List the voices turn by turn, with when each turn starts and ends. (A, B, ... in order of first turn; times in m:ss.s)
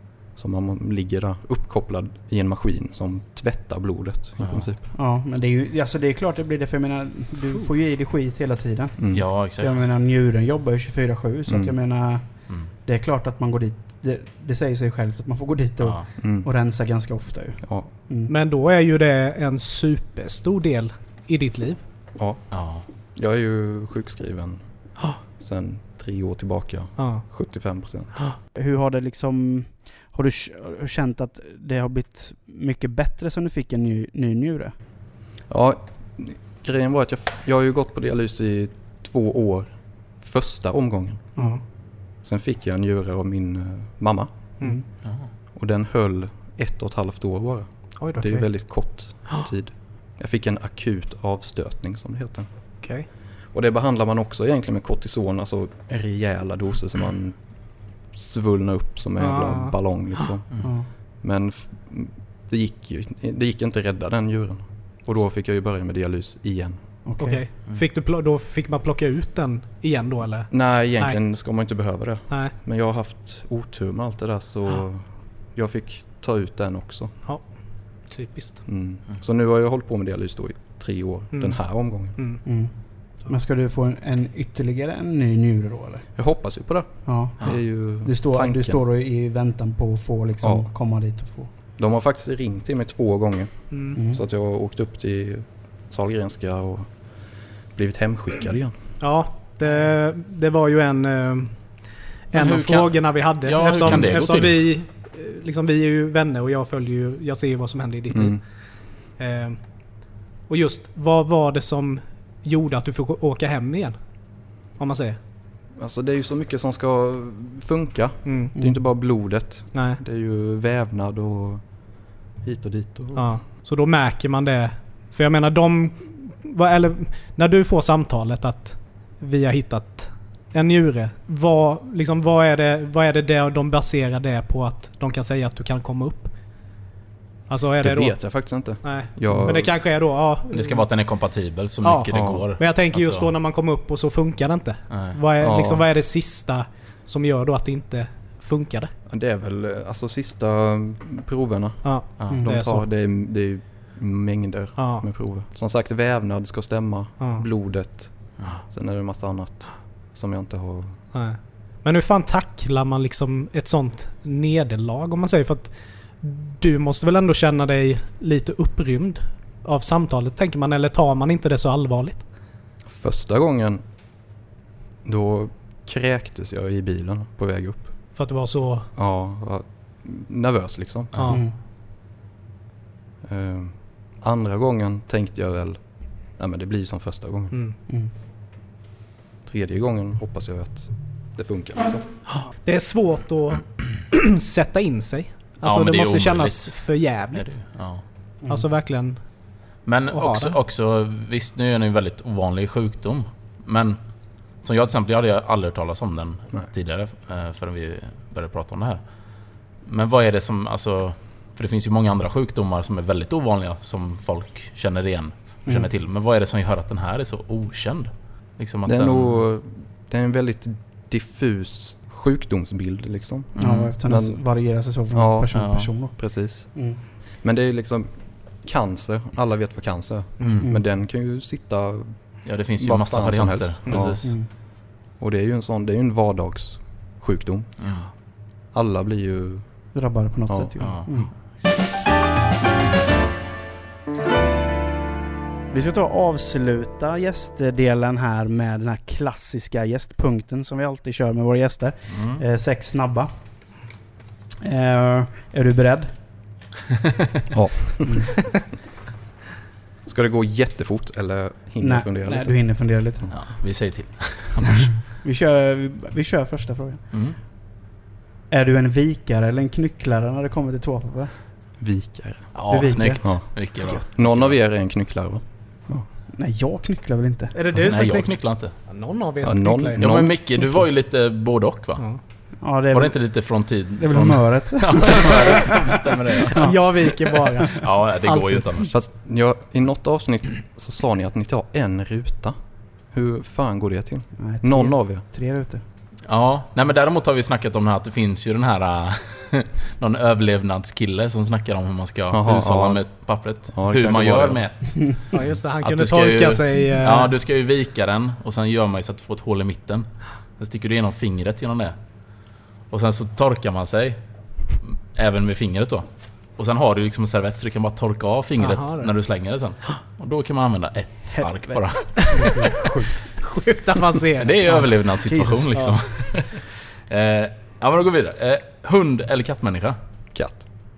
0:00.3-0:04.8 A
0:04.4-0:04.7 B
0:04.9-0:18.3 C
0:09.0-0:09.3 A
0:09.1-0:09.9 B
0:11.5-0:11.7 A
0:15.8-0:16.1 B
0:16.2-0:16.5 A
0:17.6-0:17.9 A
0:18.3-0:21.8 D
0:22.2-0:22.4 A
0:22.5-0:22.8 B
0:23.1-0:28.2 A
0:27.0-0:27.2 D
0:28.5-0:34.7 C
0:35.5-0:41.3 A
0:41.4-0:41.6 C
0:42.1-0:44.3 A
0:45.5-0:52.5 A
0:48.0-0:48.6 D
0:52.8-0:53.1 D
0:53.5-0:57.5 A
0:58.1-1:06.8 A
0:59.2-1:00.2 D
1:07.0-1:07.4 C
1:07.2-1:11.2 D
1:10.5-1:17.1 A
1:12.3-1:12.5 D
1:18.1-1:18.6 D
1:18.6-1:22.2 A
1:21.3-1:22.4 D
1:22.4-1:26.0 C
1:26.2-1:28.8 A
1:27.0-1:31.5 C
1:30.4-1:30.7 A
1:31.8-1:37.0 A
1:33.7-1:34.0 D
1:33.9-1:34.2 C
1:37.7-1:38.7 A
1:39.0-1:49.7 D
1:42.3-1:44.6 B
1:48.1-1:48.4 A
1:50.5-1:54.0 D
1:54.5-1:55.2 D
1:55.8-2:01.6 A
1:58.2-1:58.5 D
1:59.7-2:00.0 D
2:02.4-2:03.3 A
2:03.1-2:16.3 D
2:17.5-2:20.9 D
2:17.8-2:19.7 A
2:20.5-2:23.3 B
2:21.8-2:28.9 D
2:22.1-2:22.4 A
2:24.9-2:25.2 B
2:25.4-2:25.8 A
2:29.1-2:41.0 A
2:31.8-2:32.8 D
2:32.3-2:32.5 C
2:34.8-2:35.0 D
2:37.2-2:37.4 D
2:41.1-2:52.3 D
2:52.9-2:53.8 A
2:55.0-2:57.9 A
2:58.1-2:58.9 D
2:58.9-3:01.1 A
3:01.1-3:01.4 D
3:01.3-3:01.5 C
3:03.2-3:07.6 A
3:09.4-3:12.0 A
3:12.3-3:17.5 D
3:15.6-3:18.0 B
3:18.4-3:18.7 C
3:18.5-3:19.2 D
3:19.8-3:24.0 B
3:20.1-3:20.5 D
3:24.6-3:29.0 B
3:29.8-3:39.4 B
3:38.8-3:44.4 A
3:43.5-3:46.2 C
3:43.6-3:43.9 B
3:45.1-3:46.7 A
3:45.5-3:45.9 B
3:46.7-3:47.0 C
3:47.4-3:54.4 A
3:50.4-3:50.6 B
3:52.4-3:54.3 B
3:54.0-3:54.5 C
3:55.1-3:57.7 A
3:57.8-3:58.1 B
3:58.7-3:59.6 A
3:59.9-4:01.3 C
4:00.8-4:01.8 B
4:05.7-4:13.3 C
4:12.1-4:12.4 B
4:14.6-4:16.2 C
4:17.5-4:18.3 A
4:18.0-4:18.3 C
4:20.0-4:22.5 A
4:21.8-4:23.3 C
4:23.3-4:24.9 B
4:24.6-4:27.0 C
4:27.1-4:27.4 B
4:28.5-4:31.3 C
4:31.8-4:36.0 A
4:32.5-4:34.5 B
4:32.7-4:33.4 C
4:36.3-4:37.5 C
4:37.5-4:40.0 D
4:37.8-4:38.7 B
4:39.4-4:40.8 A
4:40.0-4:42.0 B
4:42.6-4:43.2 C
4:42.9-4:47.1 B
4:44.0-4:45.9 C
4:46.5-4:48.7 D
4:47.7-4:48.9 B
4:48.9-4:52.5 A
4:53.1-4:55.2 A
4:54.4-4:55.8 C
4:56.3-5:10.1 B
5:02.3-5:03.0 A
5:03.7-5:04.6 A
5:05.3-5:07.3 D
5:10.6-5:11.9 B
5:12.9-5:14.2 B
5:14.9-5:22.7 B
5:18.6-5:19.1 D
5:21.3-5:23.1 C
5:22.2-5:22.6 D
5:23.3-5:24.9 D
5:24.4-5:30.0 B
5:25.2-5:25.9 C
5:30.3-5:30.6 A